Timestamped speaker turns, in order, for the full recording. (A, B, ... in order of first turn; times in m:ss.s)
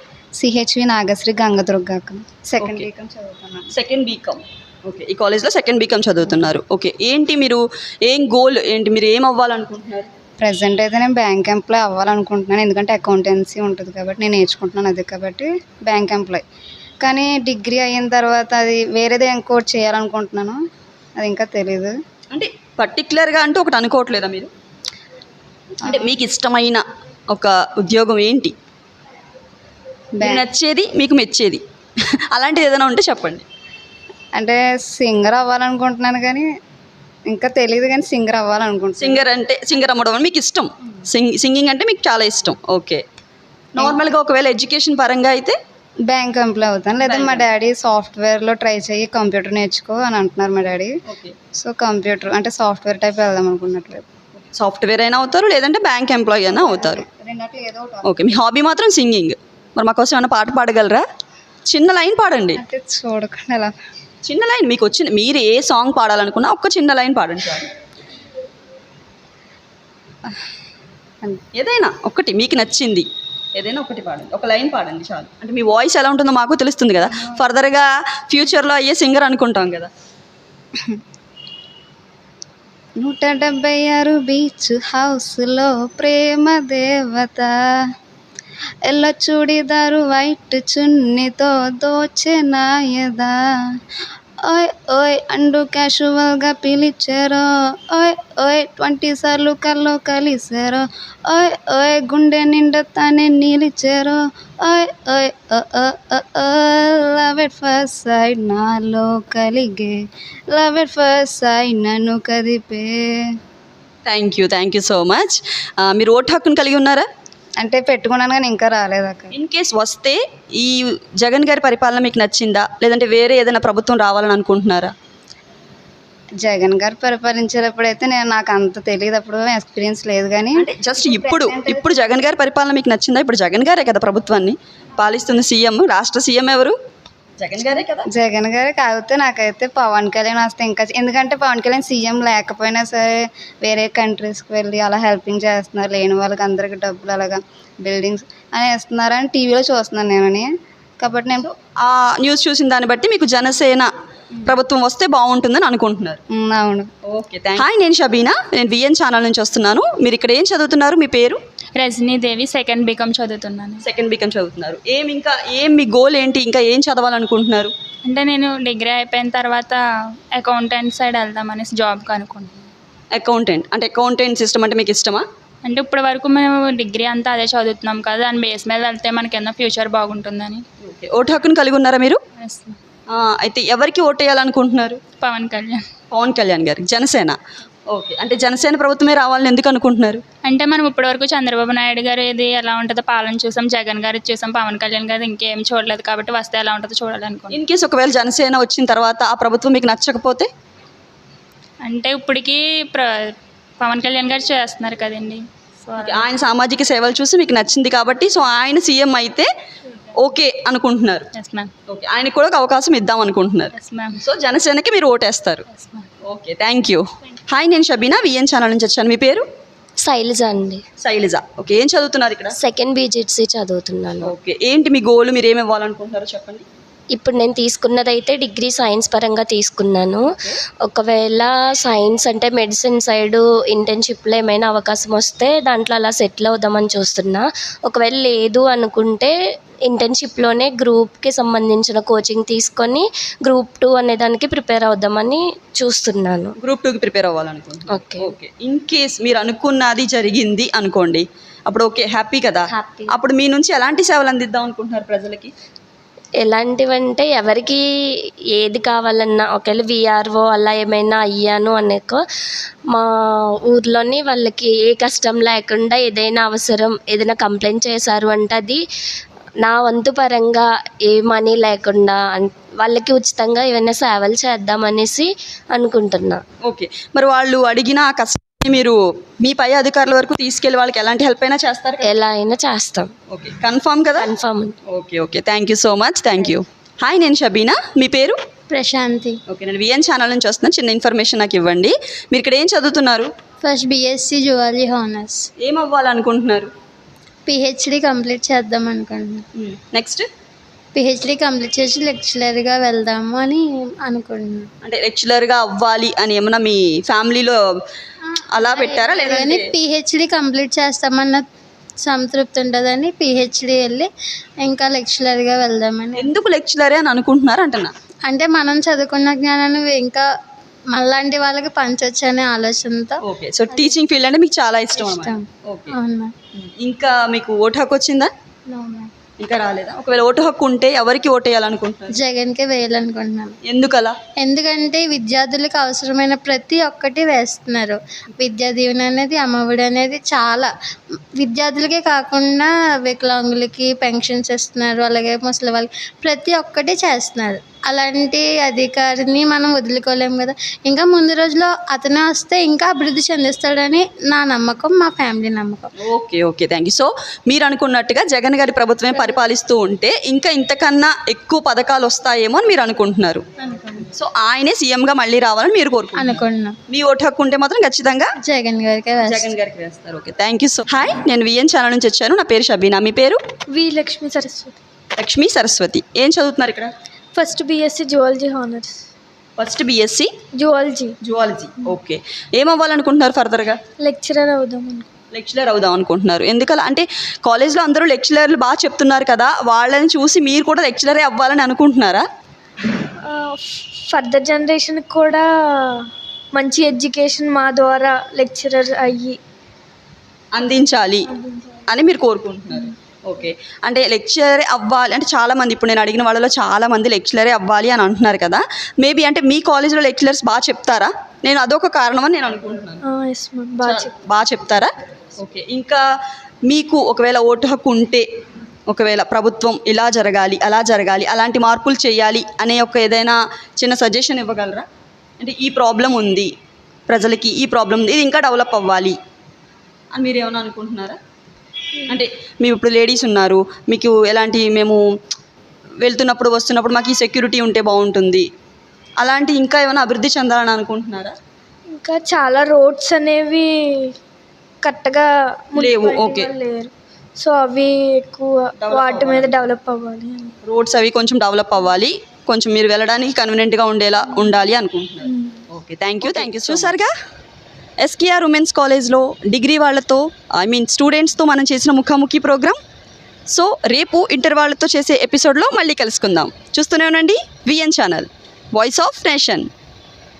0:00.4-0:03.6 A
0:02.6-0:02.9 B
0:03.7-0:10.1 B
0:10.4-0:16.4 A
0:17.0-0:20.6 A
0:21.2-0:21.9 A
0:22.3-0:24.5 B
0:25.8-0:26.1 A
0:25.8-0:28.5 B
0:30.2-0:30.5 A
0:30.2-0:31.6 B
0:32.3-0:33.4 B
0:34.4-0:36.5 A
0:37.3-0:39.2 A
0:39.0-0:43.0 B
0:43.8-0:45.6 B
0:46.1-0:51.0 A
0:47.0-0:47.4 B
0:51.1-0:51.4 B
0:51.6-0:54.0 A
0:54.4-0:57.0 B
0:56.5-0:58.4 A
0:58.0-1:01.0 B
1:01.6-1:02.6 B
1:02.6-1:03.7 A
1:04.2-1:07.7 B
1:11.5-1:19.9 B
1:23.0-1:27.6 A
1:28.8-1:33.4 A
1:34.4-1:53.3 A
1:54.0-1:57.1 B
1:57.6-1:59.3 A
1:59.3-2:04.9 B
2:06.4-2:12.0 A
2:10.6-2:16.7 B
2:17.4-2:18.1 B
2:18.1-2:31.5 A
2:31.4-2:33.9 B
2:34.4-2:36.2 B
2:36.3-2:36.9 A
2:37.1-2:41.4 B
2:41.8-2:43.8 C
2:43.8-2:47.7 B
2:48.0-2:49.8 C
2:50.3-2:52.7 C
2:53.1-2:55.2 B
2:55.6-3:00.6 C
3:00.8-3:02.2 B
3:02.4-3:02.8 C
3:03.1-3:05.0 B
3:05.2-3:05.8 C
3:06.1-3:07.4 B
3:07.9-3:10.2 B
3:10.4-3:17.6 C
3:17.5-3:20.5 B
3:21.8-3:26.3 C
3:26.0-3:29.5 B
3:30.2-3:31.3 B
3:31.4-3:31.7 C
3:31.9-3:35.6 B
3:33.8-3:34.2 C
3:35.7-3:36.1 C
3:36.2-3:39.4 B
3:40.0-3:40.8 D
3:41.0-3:42.5 B
3:42.5-3:44.3 D
3:44.2-3:46.6 B
3:47.2-3:50.3 D
3:50.9-3:59.3 D
3:59.9-4:06.5 D
4:06.6-4:15.5 B
4:07.9-4:08.3 D
4:12.7-4:13.1 D
4:16.4-4:17.8 D
4:18.6-4:22.2 D
4:23.7-4:28.8 D
4:29.6-4:36.4 D
4:36.6-4:42.2 B
4:42.0-4:43.1 D
4:43.3-4:44.3 B
4:44.2-4:44.7 D
4:44.9-4:48.4 B
4:48.7-4:49.4 E
4:49.5-4:53.3 B
4:53.6-4:55.4 E
4:55.6-4:56.7 B
4:57.5-4:59.4 E
4:59.6-5:00.3 B
5:00.9-5:04.7 E
5:04.8-5:07.6 B
5:08.3-5:11.4 E
5:08.5-5:09.7 B
5:12.0-5:14.1 E
5:14.6-5:16.3 E
5:16.2-5:17.9 B
5:18.2-5:20.2 E
5:20.9-5:23.2 E
5:23.2-5:25.9 B
5:24.9-5:26.3 E
5:26.6-5:28.3 B
5:28.7-5:29.1 E
5:29.4-5:32.1 B
5:32.1-5:33.6 E
5:33.6-5:34.2 B
5:34.4-5:40.7 E
5:41.4-5:55.9 E
5:56.0-6:03.4 B
5:59.1-5:59.4 E
6:03.6-6:04.1 E
6:04.1-6:08.3 B
6:06.2-6:06.8 E
6:08.4-6:09.5 E
6:09.2-6:13.4 B
6:13.7-6:14.8 F
6:15.2-6:16.9 B
6:17.3-6:19.0 F
6:19.6-6:20.3 B
6:20.6-6:21.1 F
6:21.2-6:23.8 B
6:24.0-6:25.1 F
6:25.3-6:32.2 B
6:33.2-6:39.4 F
6:40.5-6:41.3 B
6:41.3-6:41.8 F
6:41.9-6:53.0 B
6:53.0-6:54.1 F
6:53.8-6:56.0 B
6:56.6-6:58.2 B
6:58.9-7:04.8 B
7:05.4-7:06.5 B
7:07.1-7:09.2 B
7:10.1-7:11.2 B
7:12.1-7:15.0 B
7:16.0-7:18.4 B
7:19.2-7:21.4 B
7:21.9-7:24.1 F
7:24.8-7:30.5 F
7:25.8-7:26.5 B
7:28.8-7:29.6 B
7:30.6-7:37.1 B
7:34.2-7:34.6 F
7:35.2-7:35.6 F
7:38.0-7:42.8 B
7:43.5-7:49.7 B